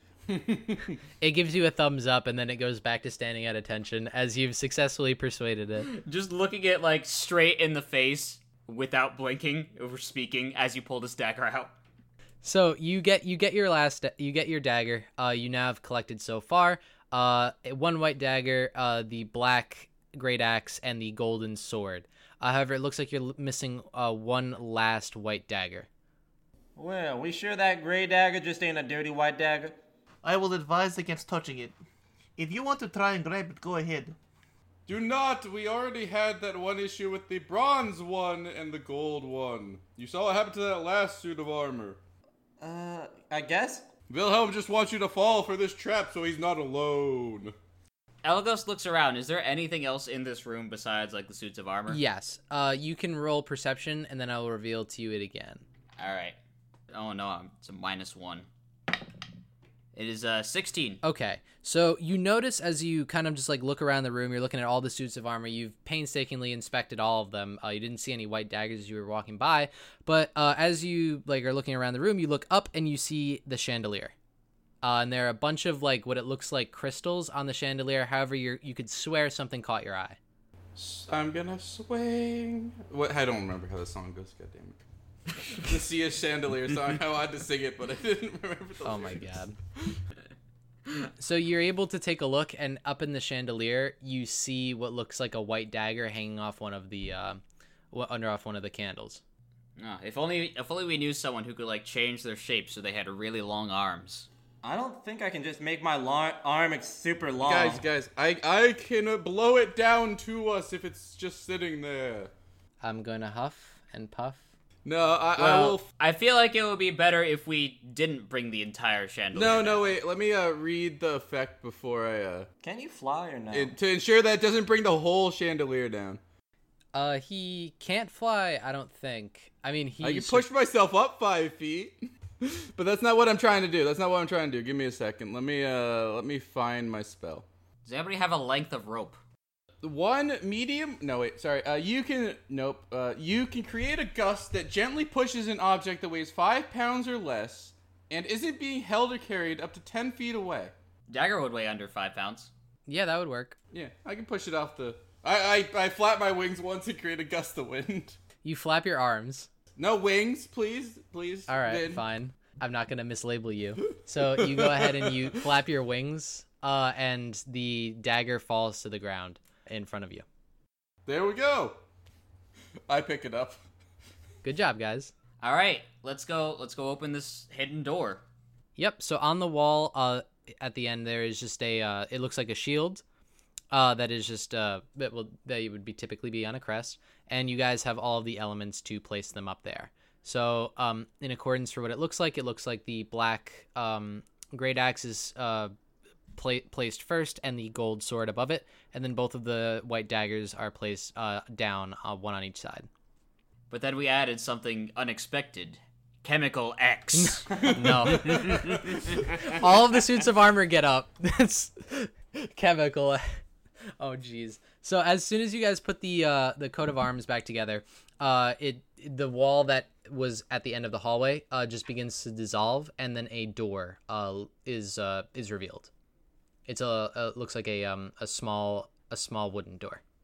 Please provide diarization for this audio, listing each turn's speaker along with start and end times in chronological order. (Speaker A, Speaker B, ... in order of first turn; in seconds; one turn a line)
Speaker A: 0.3-1.0
Speaker B: 1.2-5.9
Speaker C: 5.8-11.7
Speaker B: 12.4-25.9
Speaker D: 26.8-29.8
Speaker E: 30.2-31.7
Speaker E: 32.4-34.1
Speaker A: 34.9-42.0
Speaker D: 42.6-43.9
Speaker A: 44.1-47.5
Speaker C: 48.2-52.0
Speaker B: 51.9-55.6
Speaker C: 56.0-56.4
Speaker C: 56.9-58.5
Speaker C: 59.9-61.0
Speaker B: 61.0-74.1
Speaker B: 74.8-80.2
Speaker A: 80.8-84.8
Speaker A: 85.5-90.0
Speaker B: 88.8-89.5
Speaker B: 91.2-97.4
Speaker B: 97.9-99.2
Speaker C: 99.8-104.3
Speaker D: 104.6-107.8
Speaker A: 107.4-112.3
Speaker B: 112.8-114.4
Speaker A: 114.8-115.8
Speaker C: 115.4-120.0
Speaker A: 119.3-122.5
Speaker D: 122.6-123.8
Speaker A: 123.5-126.2
Speaker B: 126.9-130.4
Speaker A: 130.0-137.4
Speaker C: 137.8-139.2
Speaker A: 139.8-150.7
Speaker C: 151.1-152.5
Speaker B: 152.8-153.6
Speaker A: 153.7-158.2
Speaker B: 158.4-159.5
Speaker A: 159.8-162.0
Speaker B: 161.5-170.2
Speaker A: 163.8-165.4
Speaker A: 171.1-171.8
Speaker A: 172.9-173.7
Speaker B: 174.4-175.1
Speaker C: 175.4-178.2
Speaker B: 178.8-183.0
Speaker B: 183.7-195.7
Speaker B: 196.3-202.9
Speaker C: 203.7-207.5
Speaker B: 207.1-213.4
Speaker A: 207.8-209.5
Speaker B: 214.0-225.9
Speaker B: 226.7-230.0